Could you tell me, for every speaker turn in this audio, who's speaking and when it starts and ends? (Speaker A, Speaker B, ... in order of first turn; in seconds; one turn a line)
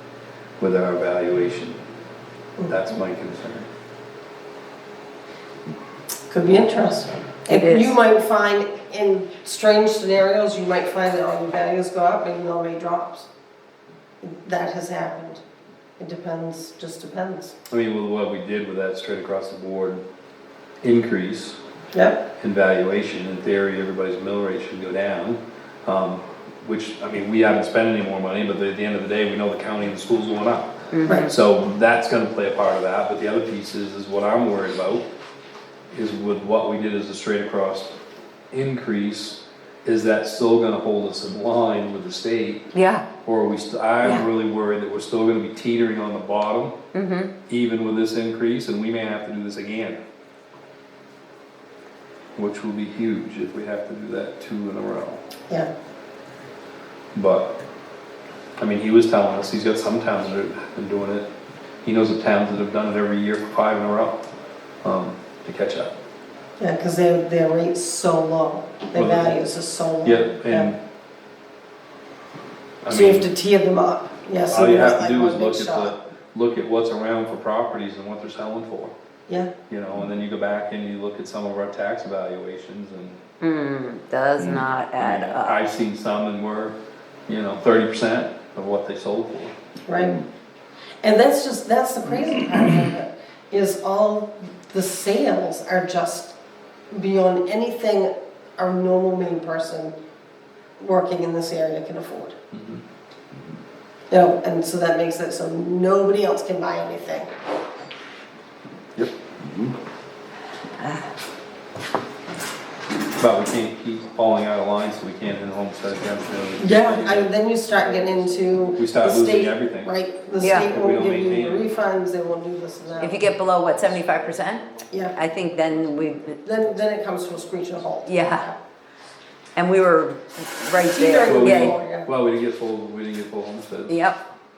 Speaker A: 0.6-1.8
Speaker A: 2.7-3.7
Speaker B: 6.3-13.3
Speaker C: 7.5-8.0
Speaker B: 14.2-15.4
Speaker B: 16.0-17.6
Speaker A: 17.7-20.0
Speaker A: 20.8-21.6
Speaker B: 21.9-22.2
Speaker A: 22.4-30.8
Speaker C: 30.9-31.3
Speaker A: 31.3-35.0
Speaker A: 35.9-38.0
Speaker A: 38.5-42.6
Speaker C: 42.7-43.1
Speaker A: 43.2-46.8
Speaker C: 46.9-47.3
Speaker A: 47.5-50.0
Speaker A: 52.4-55.2
Speaker A: 57.1-57.5
Speaker A: 58.6-61.3
Speaker A: 61.8-64.2
Speaker A: 64.8-65.9
Speaker B: 66.6-70.7
Speaker A: 68.9-69.3
Speaker A: 70.0-70.8
Speaker A: 72.8-73.3
Speaker B: 72.9-75.9
Speaker A: 74.5-78.9
Speaker A: 79.7-83.2
Speaker C: 83.4-85.6
Speaker A: 85.0-86.8
Speaker A: 87.3-89.5
Speaker B: 89.9-90.2
Speaker B: 91.0-96.3
Speaker B: 96.9-99.9
Speaker B: 100.8-102.3
Speaker A: 102.5-102.8
Speaker B: 104.1-107.3
Speaker A: 113.2-117.3
Speaker B: 116.6-123.2
Speaker A: 118.8-119.9
Speaker C: 120.4-120.7
Speaker A: 120.5-121.7
Speaker C: 123.0-126.4
Speaker B: 124.9-125.2
Speaker B: 126.5-128.6
Speaker C: 128.1-128.5
Speaker C: 129.6-131.8
Speaker B: 130.9-132.1
Speaker A: 131.2-134.0
Speaker C: 133.9-134.2